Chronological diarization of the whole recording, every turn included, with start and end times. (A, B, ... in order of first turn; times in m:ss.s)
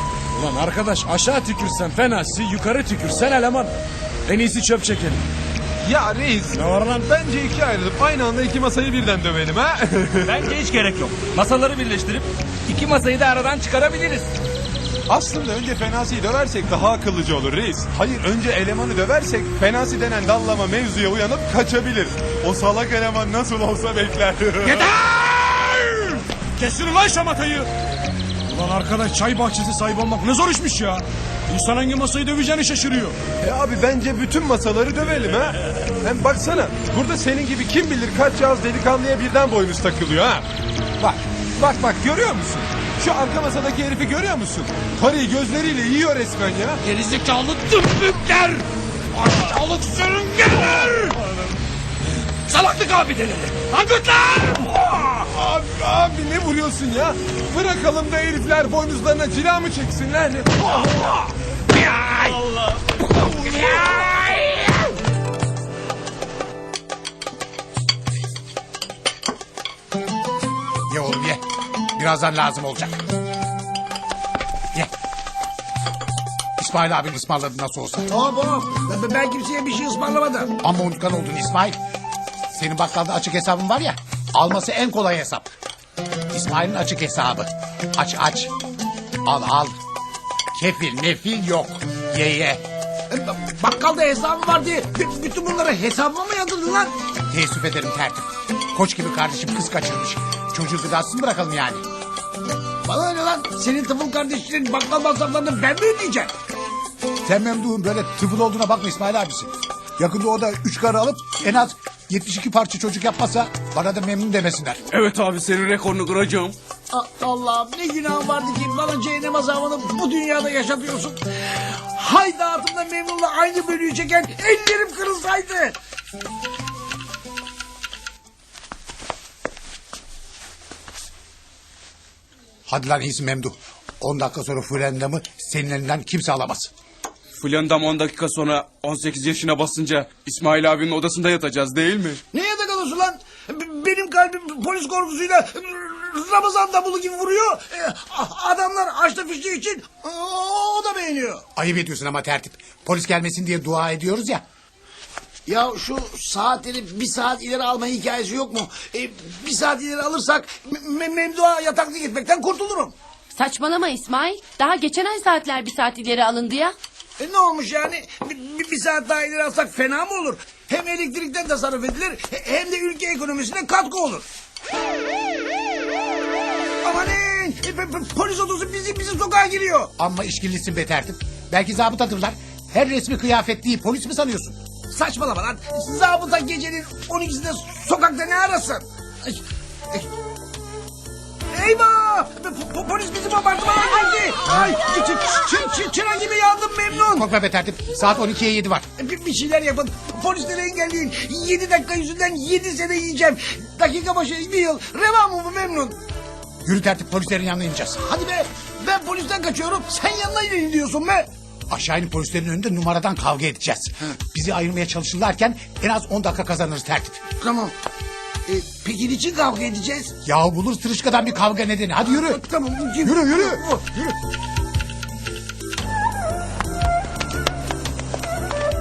0:00.4-0:03.7 A
0:04.3-0:05.2 A
0:05.8-0:10.5 B
0:06.5-0:06.9 A
0:10.2-0:14.3 C
0:15.1-0:24.9 B
0:24.7-0:27.7 A
0:28.5-0:33.2 A
0:33.4-0:40.4 B
0:41.0-0:46.8 B
0:46.9-0:48.6 A
0:49.2-0:51.1 A
0:52.5-0:54.6 A
0:53.3-0:53.9 D
0:55.0-1:00.6 B
1:03.6-1:04.1 D
1:10.9-1:11.4 E
1:11.9-1:13.0 E
1:16.6-1:18.1 E
1:18.1-1:20.5 D
1:20.6-1:21.8 E
1:22.5-1:25.5 E
1:26.3-1:28.5 E
1:29.2-1:29.7 E
1:30.6-1:32.6 E
1:33.1-1:36.9 D
1:37.3-1:41.8 E
1:42.8-1:46.3 D
1:47.2-1:54.8 E
1:54.9-1:56.5 F
1:56.9-2:05.8 D
2:12.7-2:16.7 E
2:17.4-2:22.2 F
2:22.3-2:31.4 D
2:31.6-2:34.4 E
2:35.4-2:42.9 D
2:43.3-2:46.7 G
2:47.2-2:54.2 D
2:56.8-2:59.9 D
3:00.0-3:04.5 E
3:04.9-3:09.4 D
3:11.5-3:17.2 D
3:17.0-3:18.8 E
3:19.0-3:26.0 D
3:26.6-3:28.0 E
3:28.0-3:31.3 D
3:31.7-3:37.2 E
3:37.4-3:37.7 D
3:38.5-3:40.1 D
3:40.2-3:42.4 E
3:42.0-3:44.1 D
3:43.0-3:43.6 E